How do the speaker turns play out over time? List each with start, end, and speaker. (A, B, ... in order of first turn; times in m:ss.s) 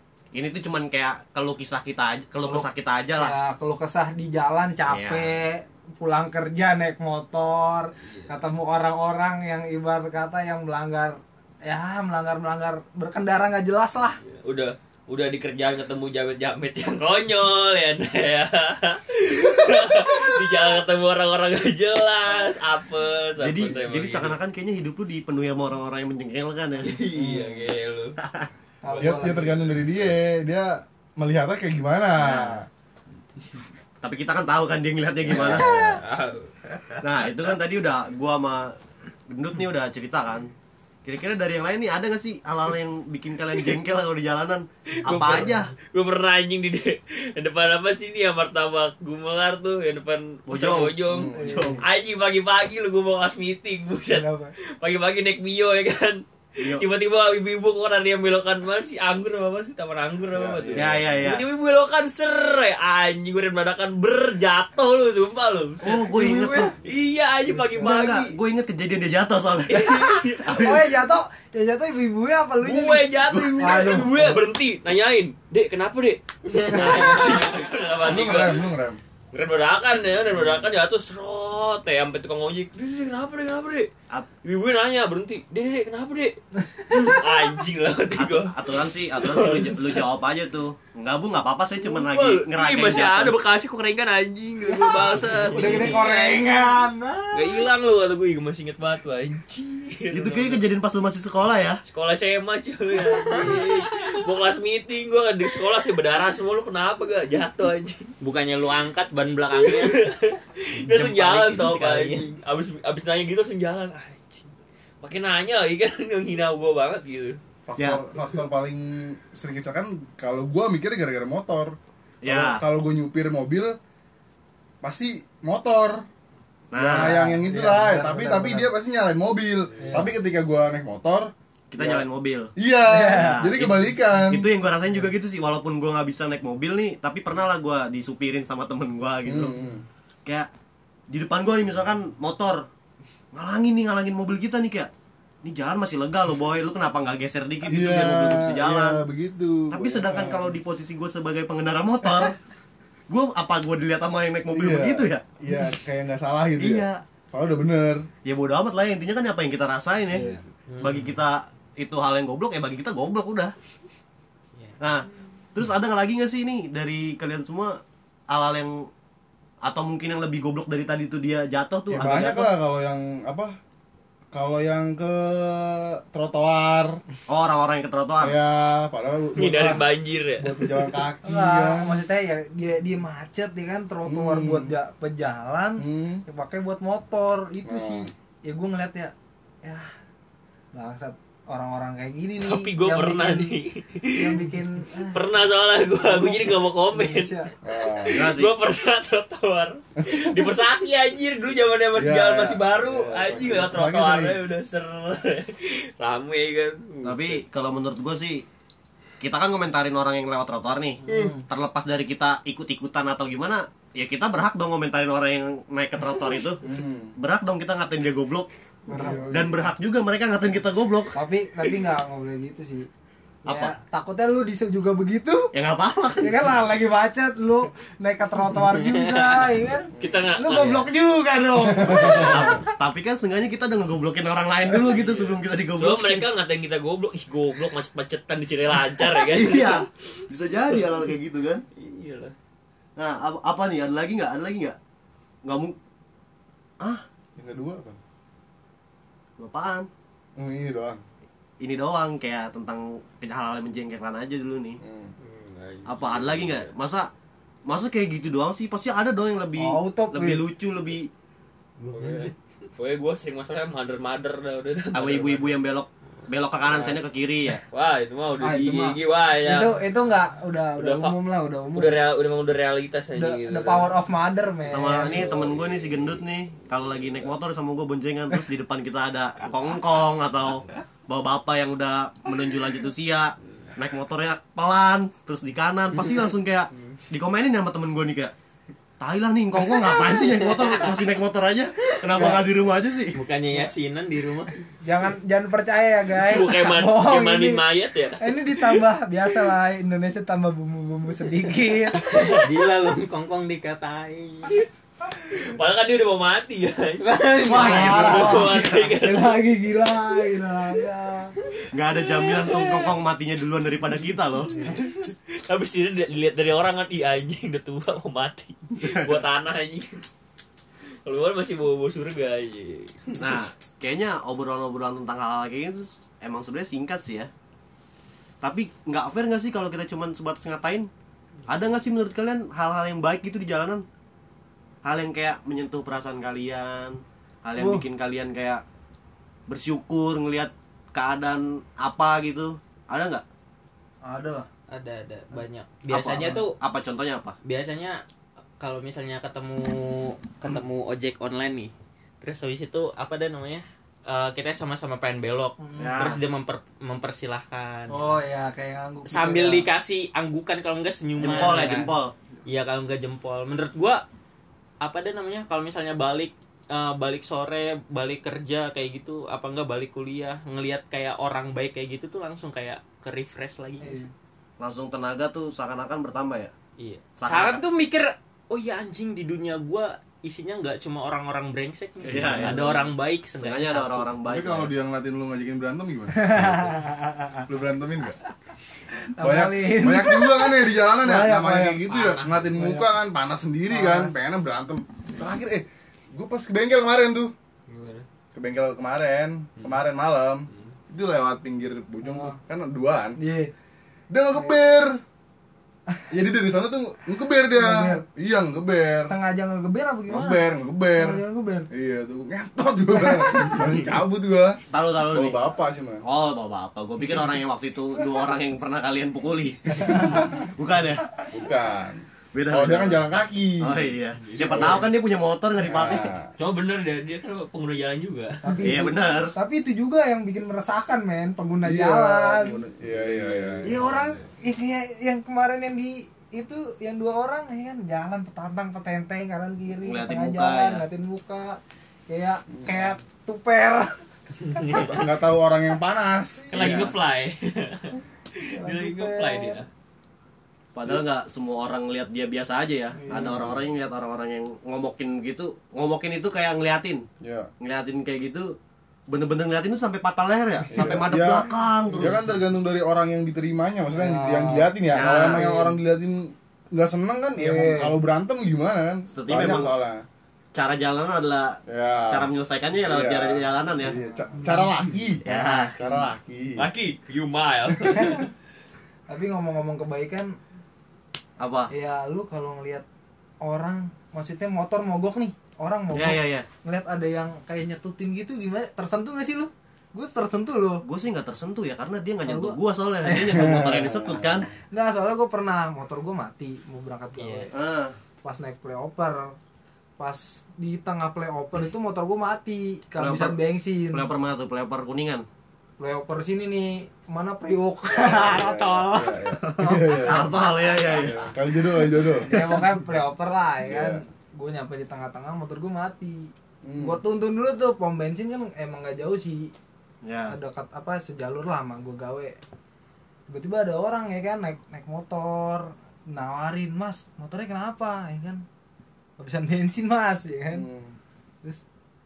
0:00.3-0:03.4 A
0:02.4-0:14.2 B
0:04.9-0:05.3 A
0:14.2-0:24.4 C
0:23.4-0:27.0 A
0:26.8-0:28.2 C
0:27.1-0:27.7 B
0:28.2-0:28.5 A
0:28.8-0:29.7 B
0:28.9-0:29.4 C
0:29.0-0:32.7 D
0:32.2-0:32.6 A
0:34.0-0:35.9 A
0:35.3-0:37.3 C
0:37.0-0:38.7 A
0:39.3-0:40.5 A
0:41.0-0:45.7 A
0:45.0-0:54.3 C
0:50.5-0:51.8 A
0:51.1-0:51.8 D
0:51.3-0:51.8 B
0:54.1-0:54.5 B
0:54.8-1:06.0 C
0:56.6-0:56.8 A
1:00.3-1:01.2 D
1:00.7-1:01.4 A
1:05.8-1:06.8 A
1:06.0-1:06.8 B
1:06.8-1:08.3 C
1:07.5-1:08.3 B
1:07.8-1:10.9 A
1:09.7-1:10.6 C
1:10.5-1:14.4 B
1:12.6-1:18.7 C
1:13.3-1:13.8 A
1:16.6-1:17.4 E
1:16.7-1:17.0 B
1:18.0-1:19.0 D
1:19.3-1:23.9 C
1:24.4-1:30.1 C
1:26.6-1:27.1 B
1:28.2-1:33.4 A
1:31.8-1:36.4 C
1:34.6-1:37.6 B
1:35.4-1:35.8 E
1:37.3-1:40.7 C
1:40.1-1:41.8 A
1:41.9-1:48.1 C
1:43.0-1:43.8 E
1:48.2-1:50.0 E
1:49.5-1:57.4 C
1:50.8-1:52.4 E
1:57.7-2:03.8 D
2:02.2-2:02.6 A
2:04.8-2:06.1 D
2:06.7-2:07.3 A
2:06.7-2:12.0 D
2:07.0-2:08.7 B
2:09.8-2:10.1 B
2:11.7-2:12.5 A
2:12.6-2:14.5 D
2:12.9-2:13.4 B
2:13.0-2:19.6 A
2:19.2-2:19.8 D
2:21.1-2:22.7 A
2:23.3-2:24.9 A
2:25.4-2:29.0 A
2:27.6-2:30.6 D
2:29.7-2:32.4 A
2:33.1-2:35.2 A
2:34.5-2:38.1 D
2:36.6-2:37.0 A
2:38.2-2:43.6 A
2:40.1-2:40.4 B
2:40.7-2:41.2 E
2:44.8-2:47.8 A
2:48.3-2:48.9 A
2:49.6-2:52.5 A
2:51.9-2:53.6 D
2:54.3-2:57.0 D
2:57.3-2:58.4 A
2:58.2-2:59.9 D
2:59.4-3:00.9 C
3:00.4-3:02.0 D
3:01.2-3:09.1 B
3:04.1-3:04.8 D
3:05.8-3:06.2 D
3:07.6-3:08.1 D
3:10.7-3:13.6 B
3:12.4-3:14.5 C
3:14.2-3:15.3 B
3:15.1-3:17.3 C
3:16.0-3:17.5 B
3:17.6-3:18.3 D
3:17.9-3:27.4 C
3:18.1-3:18.5 A
3:22.0-3:24.4 D
3:27.0-3:28.5 A
3:29.2-3:36.6 A
3:31.1-3:31.5 B
3:36.6-3:37.2 D
3:37.2-3:38.5 A
3:38.9-3:39.7 D
3:38.9-3:39.2 B
3:39.3-3:41.2 A
3:41.2-3:42.9 B
3:43.5-3:43.8 A
3:43.5-3:45.5 B
3:45.5-3:46.4 A
3:46.2-3:52.7 B
3:48.6-3:49.2 E
3:50.0-3:50.2 D
3:50.0-3:50.9 C
3:51.8-3:52.4 D
3:52.0-3:56.3 A
3:54.7-3:59.8 C
3:59.2-4:01.6 A
4:01.8-4:02.3 C
4:03.0-4:04.8 A
4:05.4-4:05.8 A
4:07.4-4:08.0 D
4:09.4-4:09.9 A
4:10.4-4:11.0 D
4:11.6-4:14.8 A
4:14.8-4:15.1 D
4:15.2-4:16.7 C
4:15.9-4:17.1 A
4:17.7-4:21.1 A
4:19.6-4:20.4 B
4:21.8-4:22.3 B
4:22.0-4:25.6 C
4:24.9-4:27.6 A
4:27.7-4:29.8 C
4:28.4-4:32.0 B
4:30.8-4:31.2 C
4:31.7-4:33.9 C
4:33.2-4:35.3 B
4:34.7-4:48.3 A
4:49.0-4:53.2 A
4:50.2-4:50.7 E
4:52.1-4:52.4 B
4:53.1-4:54.5 E
4:54.8-4:57.6 B
4:56.3-4:58.8 C
4:58.2-5:02.2 B
5:02.3-5:04.6 E
5:05.3-5:09.3 C
5:07.0-5:08.4 E
5:07.5-5:08.7 A
5:07.5-5:11.3 B
5:11.7-5:14.6 A
5:12.0-5:12.9 C
5:14.6-5:20.0 C
5:18.8-5:19.2 A
5:21.0-5:23.2 C
5:23.2-5:27.3 A
5:28.4-5:30.9 A
5:31.5-5:33.8 A
5:34.8-5:38.6 A
5:37.6-5:37.8 B
5:39.5-5:43.2 A
5:44.0-5:44.5 B
5:44.7-5:46.6 E
5:45.9-5:47.4 A
5:47.4-5:48.0 E
5:48.6-5:58.0 E
5:55.6-5:56.2 B
5:55.8-5:56.2 A
5:57.9-5:59.7 B
5:59.1-6:02.0 E
6:01.2-6:02.1 A
6:02.5-6:04.0 E
6:04.8-6:14.1 E
6:13.8-6:14.1 B
6:14.6-6:16.5 A
6:16.8-6:24.1 E
6:17.2-6:17.6 A
6:22.0-6:24.7 A
6:24.2-6:26.7 D
6:26.2-6:27.4 B
6:27.5-6:28.2 D
6:29.0-6:31.8 B
6:29.2-6:37.3 D
6:31.9-6:32.6 C
6:32.5-6:32.9 B
6:33.7-6:34.2 B
6:37.7-6:38.1 C
6:38.3-6:43.2 D
6:42.0-6:42.4 B
6:43.2-6:43.5 B
6:44.1-6:45.0 D
6:46.1-6:49.1 D
6:47.6-6:48.0 B
6:49.1-6:50.4 B
6:50.1-6:56.0 D
6:51.0-6:51.7 B
6:53.6-6:53.9 C
6:54.7-6:55.5 A
6:56.0-7:01.1 A
6:59.9-7:00.4 D
6:59.9-7:00.2 B
7:01.3-7:03.9 D
7:02.3-7:06.1 A
7:04.2-7:04.9 C
7:04.5-7:04.8 D
7:05.6-7:06.3 D
7:06.4-7:08.6 C
7:08.4-7:12.6 B
7:08.6-7:09.4 A
7:11.6-7:14.1 D
7:12.9-7:14.0 A
7:13.7-7:24.0 B
7:19.8-7:20.8 A
7:22.5-7:22.8 D
7:24.6-7:26.8 D
7:26.5-7:29.7 C
7:26.5-7:26.9 A
7:28.6-7:29.6 B
7:30.8-7:37.0 A
7:33.0-7:33.5 B
7:33.1-7:33.6 D
7:37.2-7:37.5 D
7:37.6-7:38.5 A
7:39.1-7:42.2 A
7:40.7-7:50.0 D
7:44.0-7:45.8 B
7:44.9-7:45.6 A
7:47.4-7:48.0 B
7:49.1-7:49.8 A
7:50.5-7:54.0 A
7:51.7-7:52.3 D
7:52.8-7:56.7 D
7:53.9-7:54.7 B
7:55.2-7:55.8 A
7:55.4-7:55.9 E
7:56.6-7:58.3 C
7:57.9-7:58.3 B
7:59.1-8:00.3 B
8:01.4-8:01.7 A
8:01.7-8:02.8 B
8:03.4-8:10.8 B
8:05.9-8:06.5 A
8:10.8-8:14.5 A
8:12.2-8:13.9 B
8:14.7-8:17.5 B
8:17.2-8:17.5 E
8:17.5-8:18.0 A
8:18.2-8:19.4 B
8:20.0-8:24.1 B
8:23.0-8:23.4 A
8:23.9-8:25.3 A
8:25.8-8:29.2 B
8:27.9-8:32.8 D
8:29.5-8:31.4 A
8:32.0-8:32.2 A
8:32.2-8:39.5 B
8:33.6-8:34.0 D
8:36.6-8:37.0 D
8:40.0-8:40.4 A
8:40.3-8:42.4 B
8:43.3-8:48.4 B
8:49.2-8:50.7 B
8:50.5-8:51.0 D